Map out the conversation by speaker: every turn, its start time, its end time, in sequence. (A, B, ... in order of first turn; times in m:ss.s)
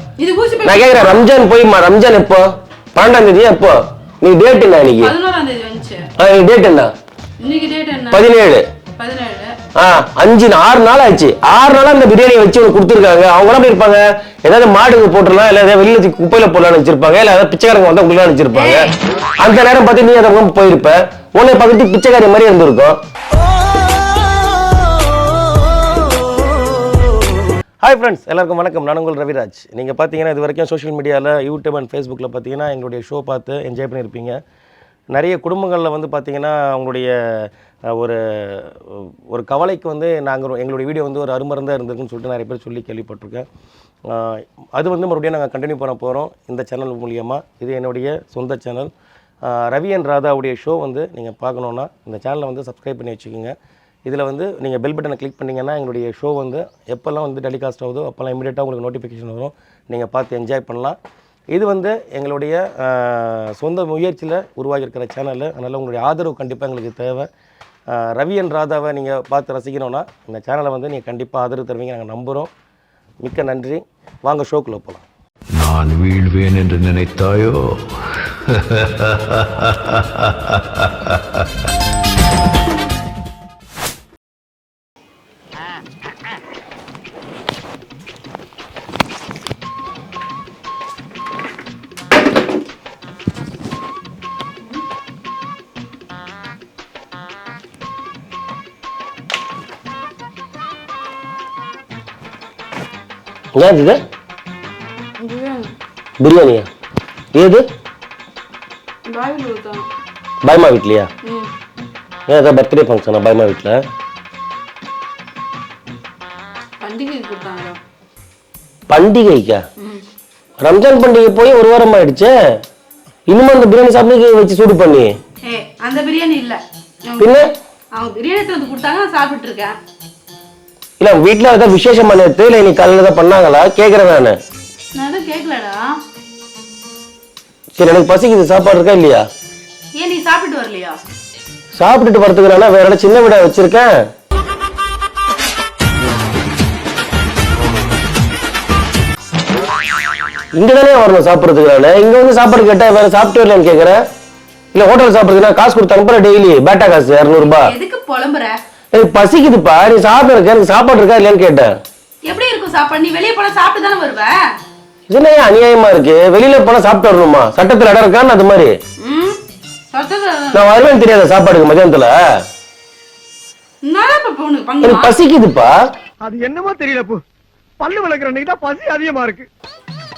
0:00.2-0:01.2 A
0:00.6-0:05.1 B
0:05.0-0:06.0 A
0:06.2-0:06.9 B
0:07.4-0:08.2 A
0:08.1-0:08.6 B
0:09.0-0:09.5 A
0:09.8-0:18.9 B
0:18.5-0:18.9 A
0:19.4-0:23.0 B
0:27.8-0:34.4 B
0:35.1-0:43.4 B
0:44.1-0:48.9 B
0:49.5-0:53.5 B
0:54.0-1:01.0 B
1:01.5-1:07.3 B
1:07.9-1:12.5 B
1:13.2-1:15.0 B
1:15.5-1:17.8 C
1:18.5-1:21.4 C
1:43.5-1:44.0 B
1:45.2-1:45.7 A
1:46.2-1:46.6 B
1:47.3-1:47.6 B
1:49.0-1:49.9 A
1:50.4-1:51.1 B
1:51.2-1:51.5 A
1:52.3-1:53.8 B
1:56.8-1:57.8 A
1:58.9-1:59.6 B
1:59.8-2:00.0 A
2:00.6-2:02.3 B
2:03.3-2:05.1 B
2:05.4-2:07.3 A
2:07.2-2:07.5 B
2:07.9-2:09.8 A
2:11.0-2:14.4 B
2:15.0-2:16.0 A
2:17.8-2:19.2 B
2:20.0-2:21.0 A
2:21.8-2:23.9 B
2:30.5-2:34.0 B
2:34.7-2:37.7 B
2:37.4-2:38.5 A
2:38.9-2:41.7 B
2:42.3-2:44.4 A
2:45.1-2:48.7 B
2:49.0-2:49.4 A
2:49.9-2:50.7 A
2:50.5-2:52.1 B
2:53.8-2:55.1 A
2:54.8-2:55.7 B
2:56.2-2:57.2 D
2:57.8-2:59.5 D